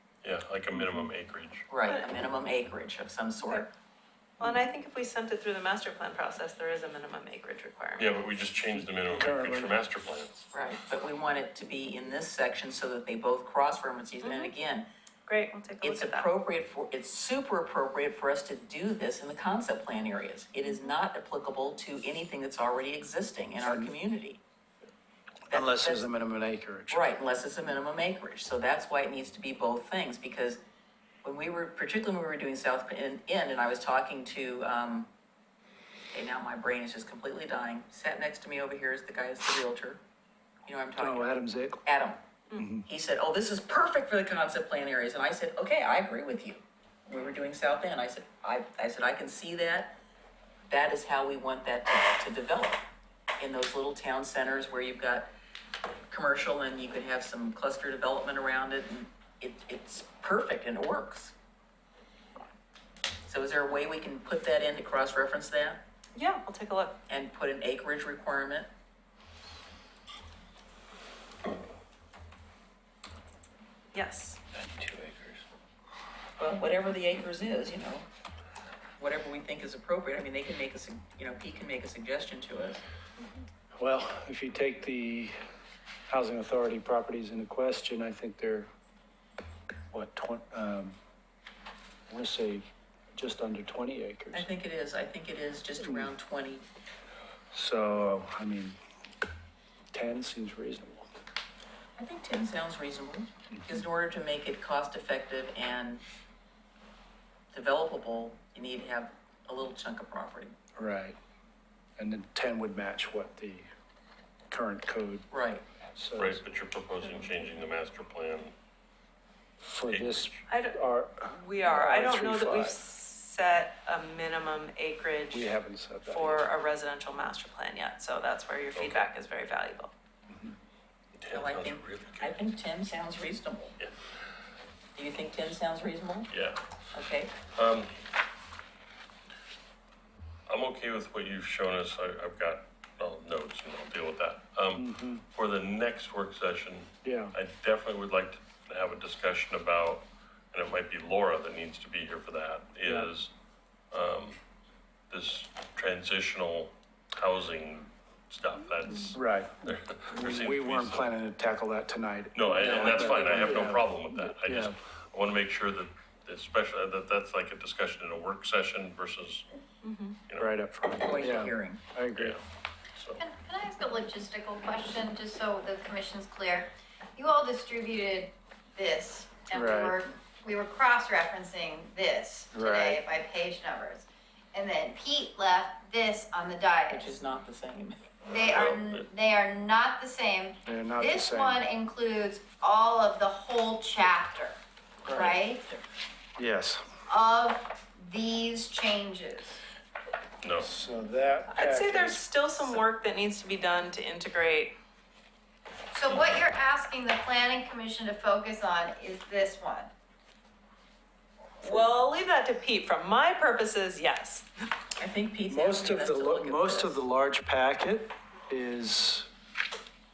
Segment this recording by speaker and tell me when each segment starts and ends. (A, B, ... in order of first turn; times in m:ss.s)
0:00.2-0:01.7 A
0:00.7-0:01.0 B
0:01.7-0:03.7 C
0:04.4-0:08.1 D
0:08.0-0:10.4 A
0:09.1-0:09.8 B
0:10.5-0:14.8 C
0:14.2-0:14.5 D
0:15.3-0:16.3 D
0:15.8-0:24.4 C
0:23.6-0:23.9 B
0:25.5-0:26.1 C
0:25.5-0:27.1 B
0:26.9-0:30.6 C
0:31.2-0:35.1 C
0:36.1-0:40.0 C
0:40.6-0:41.3 C
0:41.0-0:41.8 B
0:41.8-0:42.2 C
0:42.6-0:42.8 B
0:42.8-0:49.9 C
0:50.7-0:52.8 C
0:53.4-0:55.3 C
0:56.1-1:01.3 C
1:03.3-1:05.8 C
1:06.1-1:07.0 D
1:07.1-1:08.7 C
1:13.9-1:14.4 D
1:14.6-1:15.4 A
1:16.4-1:18.1 C
1:19.0-1:22.8 C
1:23.8-1:25.4 B
1:26.1-1:28.7 B
1:29.9-1:30.9 B
1:32.1-1:34.5 B
1:34.3-1:36.6 C
1:35.8-1:36.1 B
1:37.5-1:38.8 B
1:39.9-1:41.1 B
1:42.0-1:46.0 C
1:47.5-1:50.5 C
1:50.8-1:51.2 B
1:52.0-1:53.7 B
1:54.5-1:55.2 B
1:55.3-1:55.6 C
1:56.0-1:56.4 B
1:56.2-1:58.5 A
1:59.6-2:02.8 B
1:59.9-2:00.3 A
2:00.5-2:05.5 D
2:05.3-2:06.5 B
2:06.0-2:09.9 D
2:08.7-2:09.1 A
2:10.3-2:10.5 B
2:11.1-2:12.4 A
2:11.3-2:13.8 C
2:15.0-2:16.3 C
2:16.3-2:16.6 A
2:16.9-2:17.3 C
2:17.4-2:17.9 A
2:20.5-2:33.3 A
2:24.7-2:25.2 B
2:27.0-2:27.3 B
2:32.8-2:33.1 B
2:33.9-2:34.4 A
2:35.1-2:41.1 A
2:38.9-2:39.1 D
2:39.1-2:44.7 B
2:42.3-2:49.4 A
2:42.6-2:43.5 D
2:49.8-2:50.2 D
2:50.3-2:50.5 A
2:50.4-2:52.4 B
2:51.0-2:51.8 C
2:52.2-2:52.4 A
2:53.0-2:53.2 A
2:53.2-3:07.2 E
2:59.5-3:00.0 B
3:02.5-3:03.0 B
3:06.9-3:08.0 C
3:08.2-3:14.6 E
3:08.4-3:09.0 A
3:10.6-3:11.6 B
3:15.1-3:15.8 C
3:15.1-3:15.6 E
3:16.4-3:16.8 B
3:17.1-3:19.6 E
3:20.4-3:20.7 A
3:20.6-3:22.2 B
3:21.5-3:24.7 D
3:25.9-3:29.9 E
3:26.0-3:26.5 A
3:31.6-3:34.5 D
3:35.0-3:37.0 C
3:35.5-3:39.3 B